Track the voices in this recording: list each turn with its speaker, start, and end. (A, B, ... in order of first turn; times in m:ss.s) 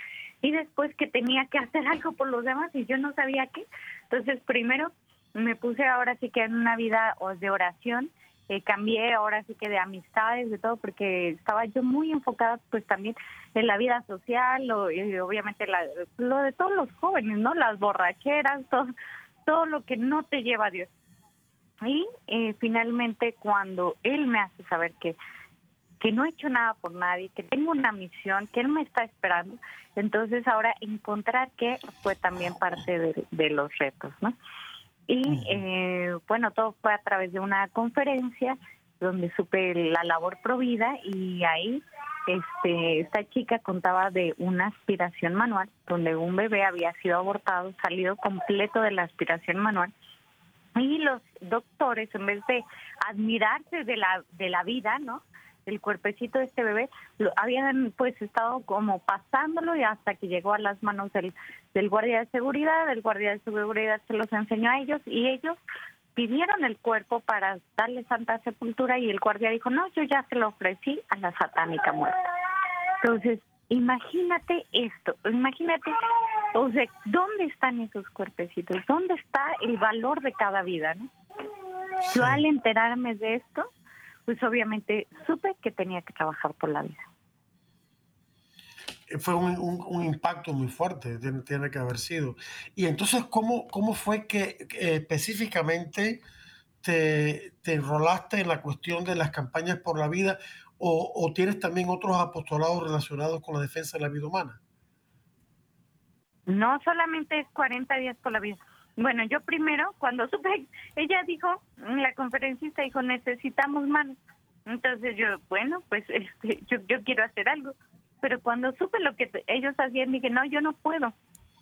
0:00.4-0:18.9 A
0:19.4-0:20.9 A
0:21.8-0:25.2 A
0:26.0-0:34.3 A
0:35.1-0:49.9 A
0:35.3-0:35.6 B
0:50.8-1:05.6 A
1:06.1-1:12.1 A
1:13.0-1:15.9 A
1:16.5-1:21.1 A
1:22.0-1:23.7 A
1:22.1-1:22.4 B
1:24.3-1:27.0 A
1:29.1-1:36.2 B
1:36.8-1:44.6 B
1:46.5-2:01.1 A